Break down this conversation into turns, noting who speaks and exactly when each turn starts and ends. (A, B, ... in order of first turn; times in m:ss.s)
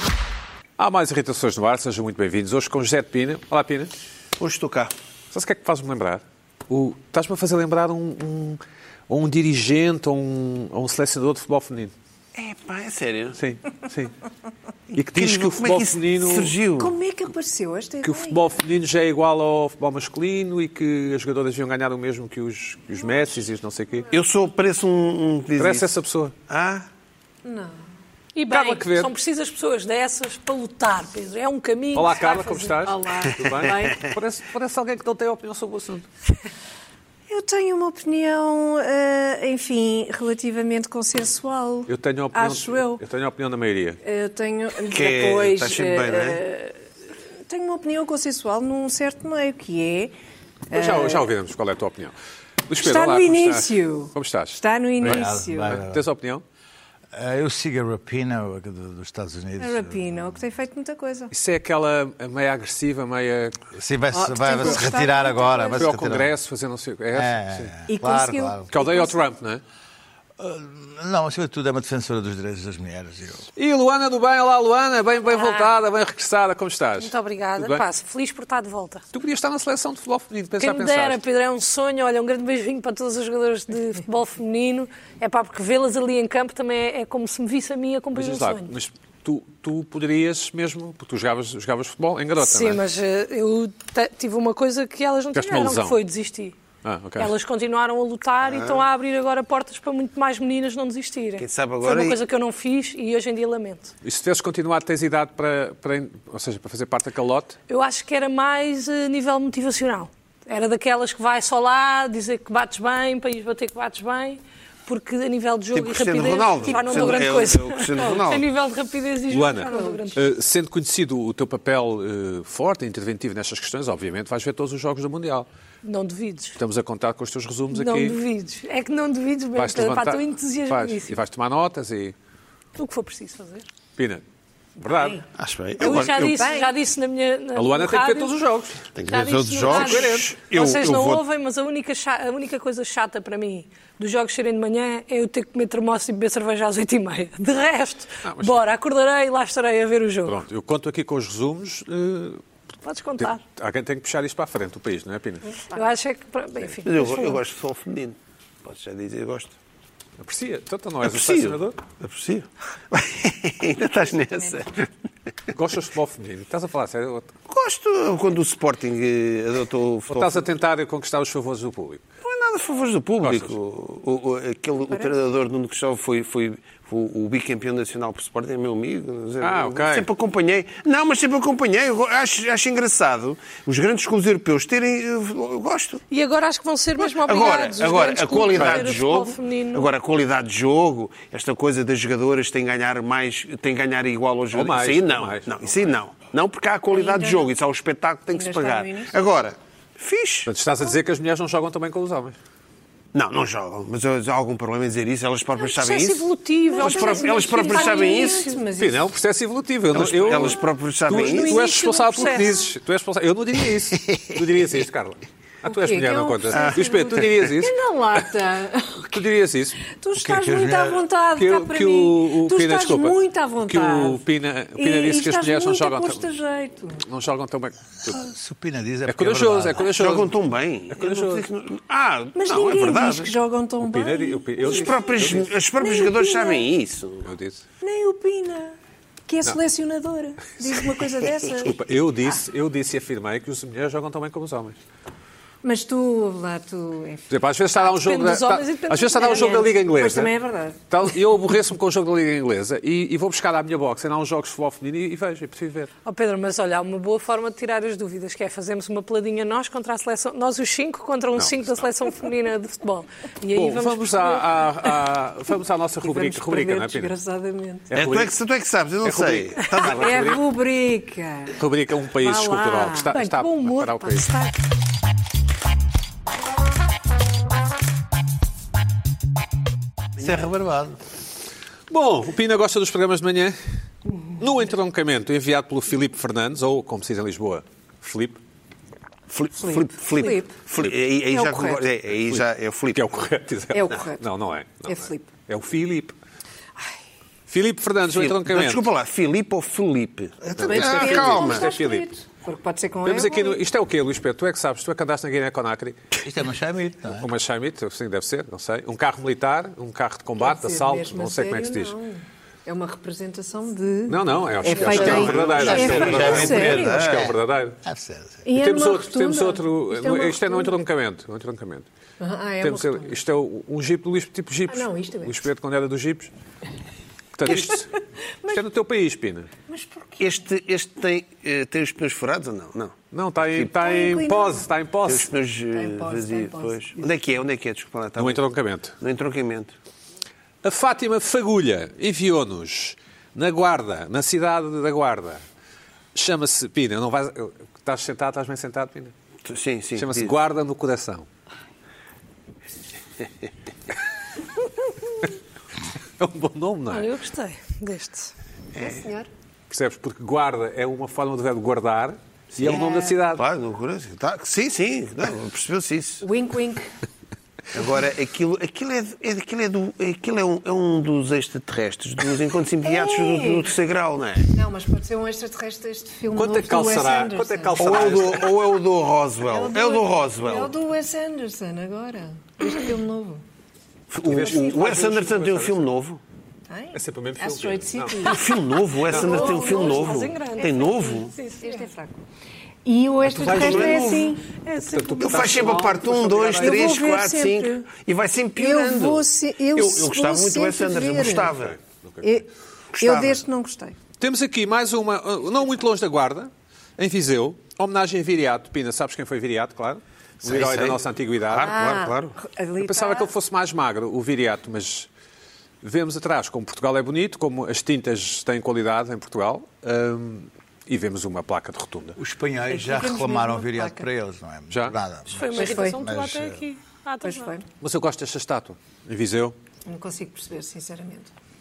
0:00.8-0:03.9 A
0:04.4-0:04.9 B
0:05.3-0:11.9 A
0:12.3-0:13.4 B
0:13.4-0:14.1 A
0:14.9-0:16.9 B
0:14.9-0:16.5 A
0:16.8-0:18.4 C
0:18.0-0:24.1 A
0:24.1-0:25.9 B
0:25.6-0:26.3 A
0:26.5-0:26.8 B
0:27.4-0:27.8 C
0:28.3-0:32.9 D
0:28.5-0:29.1 A
0:31.9-0:36.1 A
0:32.9-0:33.9 C
0:33.7-0:34.1 B
0:37.3-0:43.0 C
0:41.9-0:44.0 A
0:44.0-0:46.8 C
0:44.9-0:46.4 B
0:47.5-0:50.1 C
0:50.7-0:51.2 C
0:50.7-0:52.1 A
0:52.7-0:56.4 A
0:52.8-0:55.8 C
0:55.0-0:56.0 E
0:57.1-1:00.3 E
0:59.6-1:01.3 C
1:01.3-1:03.6 A
1:03.7-1:06.3 E
1:04.1-1:05.9 C
1:05.7-1:07.7 A
1:07.1-1:08.7 E
1:07.9-1:09.2 C
1:08.7-1:09.6 A
1:10.4-1:13.5 E
1:13.6-1:17.8 A
1:15.2-1:15.7 D
1:17.0-1:19.0 D
1:19.1-1:21.2 A
1:20.6-1:28.7 D
1:28.1-1:32.8 A
1:32.4-1:36.6 D
1:35.3-1:36.0 A
1:36.8-1:37.3 A
1:37.2-1:43.9 D
1:38.4-1:38.8 B
1:41.4-1:42.2 B
1:44.0-1:47.6 A
1:47.7-2:00.2 D
1:55.7-1:58.5 B
1:59.3-2:05.5 A
1:59.6-2:00.0 C
2:05.8-2:06.6 D
2:06.6-2:08.2 A
2:07.7-2:11.2 D
2:09.6-2:12.1 A
2:12.8-2:13.7 D
2:14.0-2:14.2 A
2:14.8-2:15.2 A
2:14.8-2:15.2 C
2:15.4-2:16.4 B
2:15.8-2:18.3 D
2:15.8-2:16.7 C
2:17.5-2:18.9 A
2:18.9-2:21.2 B
2:19.0-2:30.4 D
2:19.6-2:20.3 A
2:28.2-2:28.6 A
2:30.3-2:32.4 A
2:32.8-2:33.4 D
2:33.2-2:35.5 A
2:35.7-2:37.4 D
2:36.8-2:39.5 B
2:40.2-2:41.8 A
2:41.0-2:44.9 B
2:44.0-2:44.6 C
2:45.5-2:47.3 A
2:47.5-2:50.4 B
2:50.1-2:52.0 A
2:52.2-3:06.0 B
2:53.2-2:53.5 A
2:59.4-3:00.1 A
3:06.1-3:09.9 D
3:07.0-3:20.5 B
3:08.5-3:08.9 A
3:14.5-3:15.9 A
3:16.9-3:17.5 C
3:18.3-3:19.2 C
3:20.4-3:22.3 A
3:23.1-3:26.3 B
3:25.6-3:28.6 D
3:26.7-3:29.0 C
3:26.8-3:28.4 B
3:28.8-3:37.7 A
3:29.9-3:31.6 B
3:31.1-3:32.6 D
3:35.6-3:39.2 C
3:36.5-3:37.4 B
3:39.1-3:39.8 A
3:39.9-3:44.2 C
3:40.2-3:41.0 E
3:41.4-3:46.2 A
3:44.8-3:47.0 C
3:47.0-3:48.2 A
3:48.0-3:49.9 E
3:49.1-3:50.4 A
3:50.0-3:53.3 B
3:50.9-3:51.4 A
3:52.3-3:55.2 C
3:53.8-3:55.4 A
3:54.6-3:57.3 B
3:55.8-3:56.7 C
3:57.2-3:57.6 A
3:57.8-3:58.8 C
3:59.3-4:01.7 C
4:01.6-4:04.8 A
4:05.6-4:07.3 C
4:07.3-4:10.3 A
4:07.7-4:09.8 D
4:09.2-4:10.8 C
4:10.9-4:15.9 A
4:16.0-4:24.4 D
4:21.4-4:21.8 A
4:23.5-4:27.1 A
4:26.0-4:27.9 C
4:27.9-4:28.4 A
4:27.9-4:30.2 B
4:29.0-4:30.4 A
4:29.8-4:31.6 C
4:31.5-4:34.3 A
4:32.2-4:33.1 C
4:33.1-4:34.6 D
4:40.2-4:41.0 E
4:41.9-4:43.6 A
4:44.4-4:48.4 A
4:49.3-4:53.1 B
4:49.6-4:50.6 C
4:51.3-4:51.8 C
4:52.1-4:56.1 A
4:53.7-4:54.2 C
4:54.8-4:55.3 C
4:57.5-4:58.9 A
4:58.0-5:01.7 B
5:00.6-5:02.0 A
5:00.6-5:03.6 C
5:03.0-5:06.0 A
5:06.2-5:07.3 E
5:07.2-5:11.9 A
5:10.4-5:17.0 C
5:14.1-5:17.8 A
5:14.6-5:17.3 B
5:15.5-5:18.4 E
5:18.4-5:20.7 C
5:18.5-5:21.9 A
5:22.2-5:23.2 C
5:22.6-5:26.3 A
5:24.7-5:25.4 C
5:27.4-5:27.9 A
5:27.4-5:27.8 C
5:28.5-5:29.5 A
5:29.7-5:30.4 C
5:30.2-5:33.7 B
5:33.1-5:35.3 A
5:33.7-5:34.7 C
5:35.1-5:38.4 B
5:35.7-5:36.8 C
5:38.2-5:39.0 A
5:39.0-5:39.7 B
5:40.6-5:45.4 A
5:46.1-5:49.1 A
5:49.4-5:50.3 B
5:50.0-5:51.2 A
5:56.2-5:57.1 A
5:56.9-5:58.3 D
5:58.7-5:59.0 B
5:58.8-5:59.3 C
5:59.7-6:03.4 A
6:02.6-6:06.2 B
6:06.2-6:06.8 C
6:07.7-6:14.5 B
6:12.8-6:13.7 C
6:14.5-6:18.1 C
6:16.3-6:18.6 A
6:17.8-6:20.7 B
6:19.5-6:23.4 C
6:24.1-6:26.2 B
6:24.2-6:25.8 A
6:26.7-6:30.2 C
6:26.9-6:28.3 A
6:28.2-6:31.3 B
6:29.1-6:29.5 A
6:29.2-6:31.9 D
6:31.6-6:32.2 C
6:32.8-6:34.4 C
6:33.2-6:34.1 A
6:33.4-6:34.4 B
6:34.4-6:35.8 D
6:34.8-6:37.0 A
6:35.2-6:41.8 B
6:36.6-6:37.9 C
6:38.6-6:41.5 C
6:41.5-6:42.2 A
6:42.2-6:42.5 C
6:42.9-6:43.4 B
6:43.0-6:44.0 C
6:44.2-6:52.0 A
6:50.4-6:52.4 B
6:51.6-6:53.3 C
6:52.8-6:55.1 A
6:55.8-7:02.2 A
7:02.2-7:06.6 E
7:02.7-7:04.1 C
7:04.7-7:05.0 A
7:05.3-7:07.5 D
7:05.5-7:06.0 C
7:07.2-7:07.6 C
7:07.8-7:09.5 A
7:09.8-7:11.3 C